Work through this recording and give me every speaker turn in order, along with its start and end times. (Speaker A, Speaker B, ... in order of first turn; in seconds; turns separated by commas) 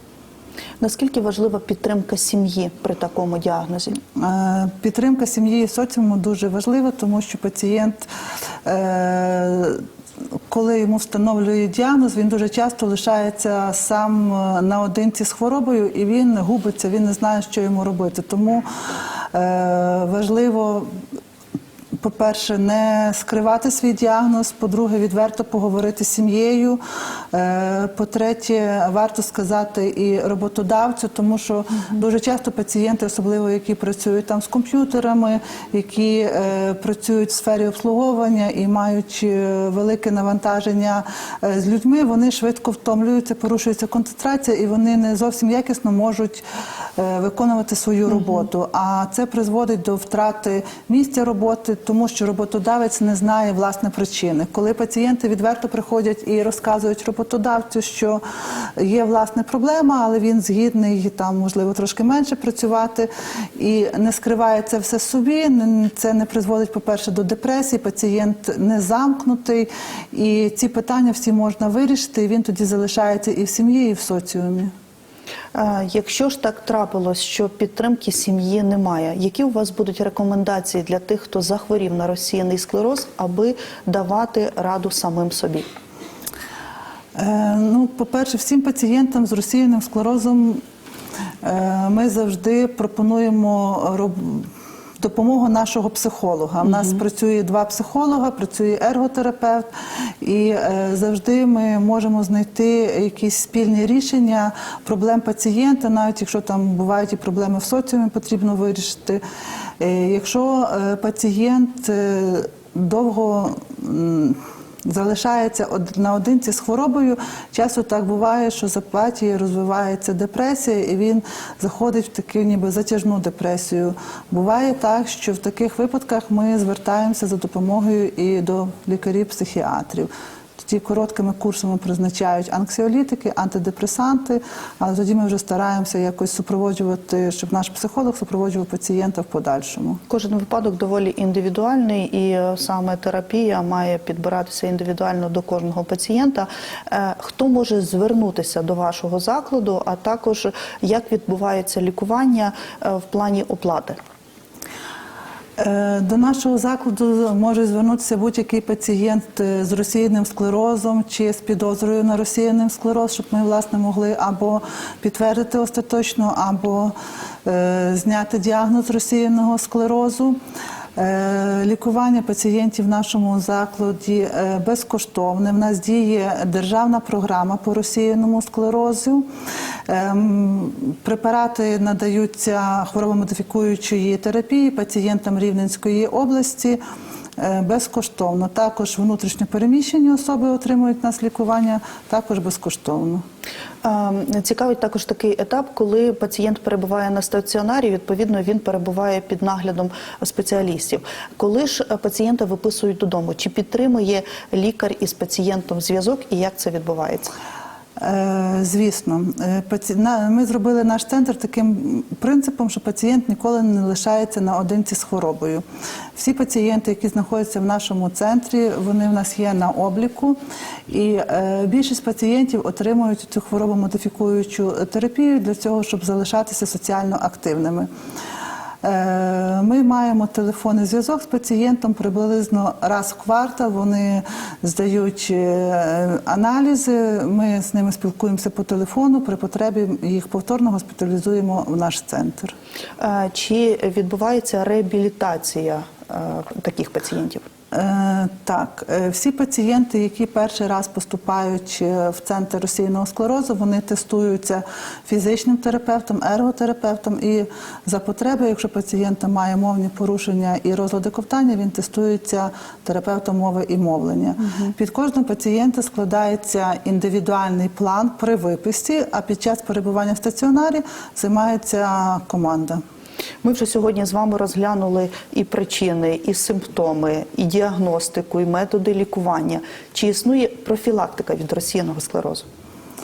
Speaker A: 0.8-4.0, Speaker B: 4.2-8.1, Speaker B: 8.7-9.8, Speaker B: 10.5-18.7, Speaker B: 19.3-20.9, Speaker B: 22.0-26.8, Speaker B: 27.3-46.4, Speaker B: 47.0-58.2, Speaker B: 58.8-74.7, Speaker A: 75.5-85.7, Speaker B: 87.2-90.6, Speaker B: 91.4-99.7, Speaker B: 100.2-109.2, Speaker B: 109.8-140.0, Speaker A: 140.1-154.0, Speaker B: 155.6-166.9, Speaker B: 167.4-170.4, Speaker B: 171.0-179.2, Speaker B: 179.9-186.8, Speaker B: 187.4-193.2, Speaker A: 193.8-207.3, Speaker B: 208.0-215.6, Speaker B: 216.2-220.4, Speaker B: 220.9-227.9, Speaker B: 228.8-242.5, Speaker A: 243.0-247.5, Speaker B: 247.7-272.8, Speaker A: 273.4-282.4